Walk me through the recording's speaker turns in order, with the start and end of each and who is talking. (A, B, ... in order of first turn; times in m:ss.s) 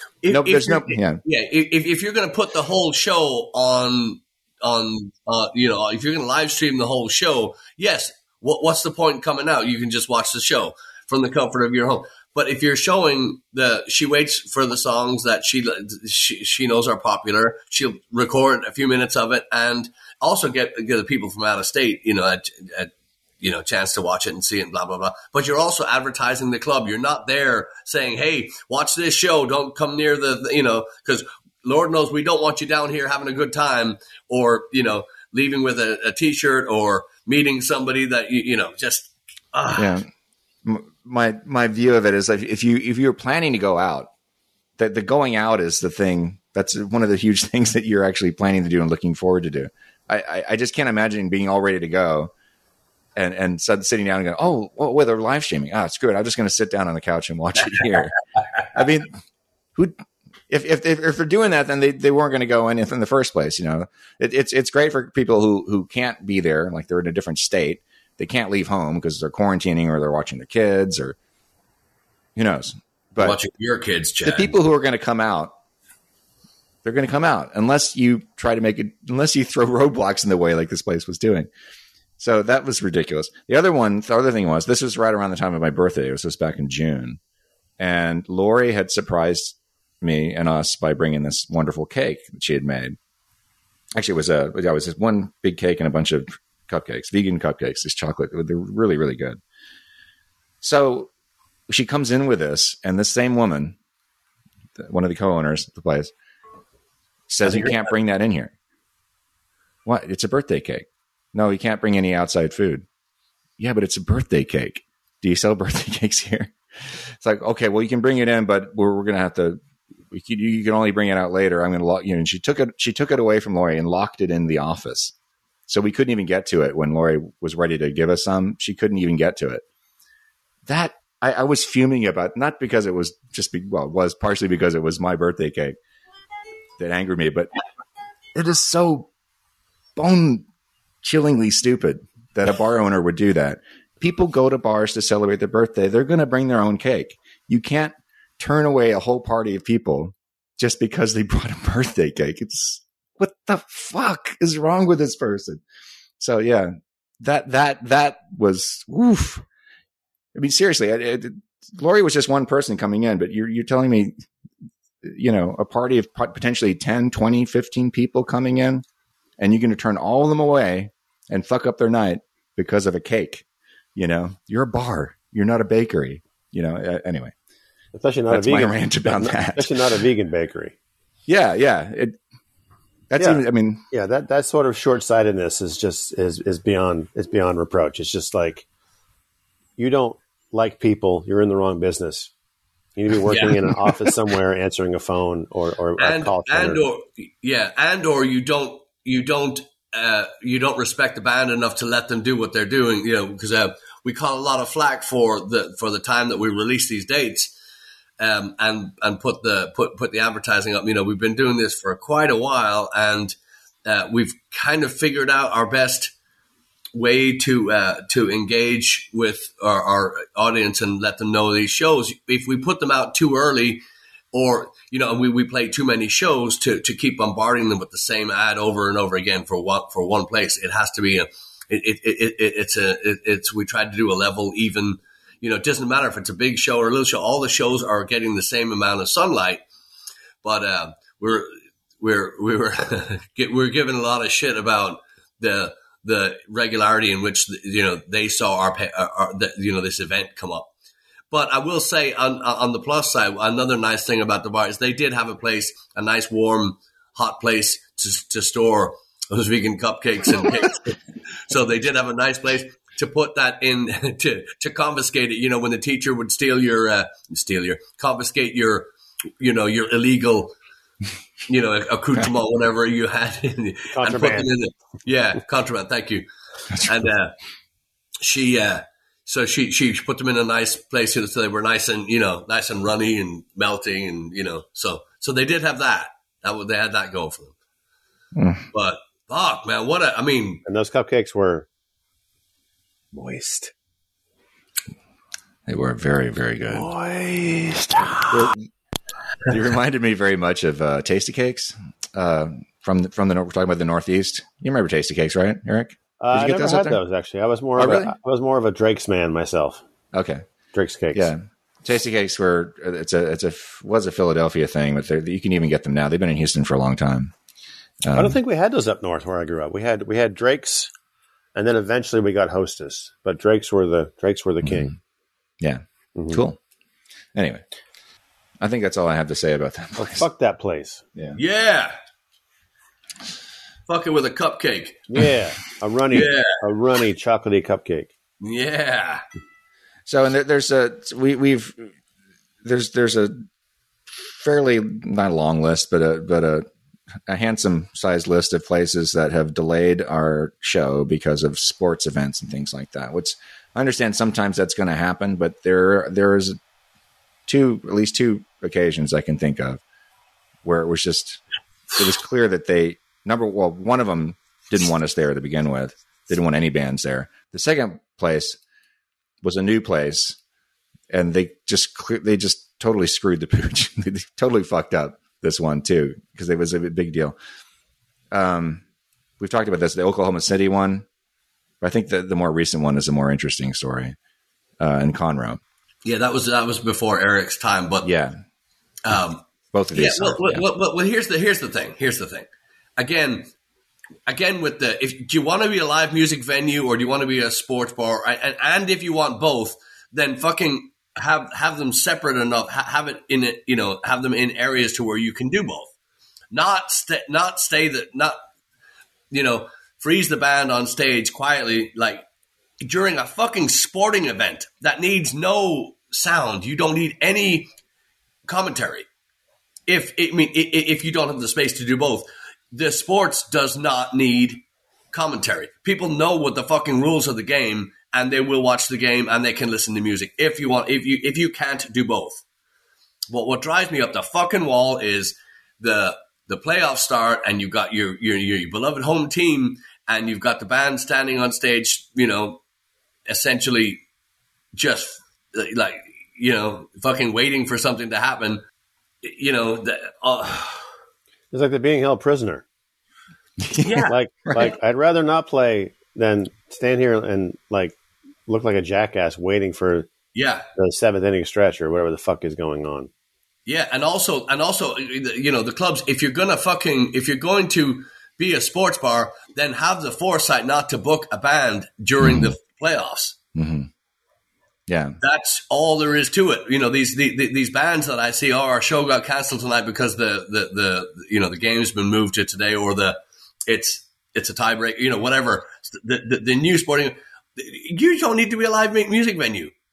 0:00.2-0:40.0 A
0:00.3-0:01.2 B
0:39.8-0:40.1 B
0:40.6-0:44.1 B
0:44.8-0:52.3 B
0:53.2-0:58.2 B
0:58.7-0:59.1 B
1:00.5-1:11.2 B
1:12.4-1:13.4 B
1:13.2-1:14.5 A
1:14.2-1:15.5 B
1:16.8-1:21.5 B
1:22.2-1:27.2 B
1:27.8-1:33.0 B
1:34.0-1:39.4 B
1:40.6-1:41.1 B
1:41.7-1:43.8 B
1:44.8-1:46.1 B
1:47.3-1:48.5 B
1:49.9-1:52.9 B
1:53.6-2:05.1 B
2:05.7-2:09.6 B
2:10.7-2:15.8 B
2:16.8-2:17.5 B
2:18.4-2:19.1 B
2:20.0-2:20.5 B
2:21.0-2:35.6 B
2:36.2-2:39.4 B
2:40.4-2:44.2 B
2:45.0-2:48.8 B
2:49.4-2:53.4 B
2:54.0-2:57.3 B
2:58.0-3:00.8 C
2:58.3-2:59.8 B
3:01.3-3:02.2 B
3:03.1-3:03.8 B
3:03.2-3:08.7 C
3:09.8-3:12.3 C
3:13.0-3:16.8 C
3:13.3-3:13.6 A
3:16.0-3:27.5 A
3:28.2-3:36.1 A
3:36.9-3:59.6 A
4:00.4-4:10.7 A
4:11.3-4:21.0 A
4:21.5-4:28.9 A
4:29.4-4:30.6 A
4:31.5-4:36.3 A
4:33.9-4:34.5 C
4:36.8-4:37.4 A
4:38.2-4:47.5 A
4:48.4-4:48.7 B
4:48.7-4:50.6 A
4:50.7-4:51.7 C
4:53.1-4:53.7 C
4:55.7-4:56.9 B
4:56.6-4:58.5 C
4:58.3-4:58.7 B
4:59.4-5:07.0 B
5:06.2-5:09.8 C
5:07.8-5:08.1 B
5:10.1-5:10.4 B
5:10.7-5:11.3 C
5:11.1-5:17.3 B
5:18.0-5:18.4 B
5:18.1-5:20.9 C
5:21.6-5:24.9 C
5:25.6-5:26.6 B
5:26.2-5:26.4 C
5:27.4-5:27.6 B
5:28.6-5:30.2 B
5:30.0-5:31.0 C
5:31.4-5:31.9 A
5:33.9-5:35.2 A
5:35.1-5:38.1 C
5:36.1-5:36.6 A
5:38.4-5:39.2 A
5:40.1-5:41.9 B
5:42.6-5:43.4 B
5:44.2-5:46.6 B
5:47.3-5:56.6 B
5:57.5-5:59.8 B
6:00.6-6:01.4 B
6:01.9-6:08.6 B
6:09.4-6:10.4 B
6:11.1-6:17.4 B
6:18.3-6:18.8 B
6:19.4-6:21.1 B
6:21.8-6:24.2 B
6:24.8-6:25.6 B
6:26.0-6:28.1 A
6:28.0-6:28.4 B
6:29.0-6:33.5 A
6:29.7-6:30.6 B
6:34.3-6:45.9 A
6:46.5-6:48.4 A
6:49.3-6:52.2 A
6:52.8-6:57.7 A
6:58.5-6:59.1 A
6:59.9-7:12.4 A
7:13.3-7:22.6 A
7:23.3-7:24.0 A
7:24.7-7:28.6 A
7:29.2-7:30.9 A
7:31.5-7:32.6 C
7:33.6-7:34.0 B
7:33.8-7:34.2 A
7:34.1-7:38.0 C
7:38.5-7:40.1 C
7:40.3-7:40.7 A
7:40.8-7:43.1 C
7:43.7-7:53.4 A
7:52.2-7:52.6 B
7:53.6-7:53.9 B
7:54.9-7:55.2 B
7:55.2-8:09.7 A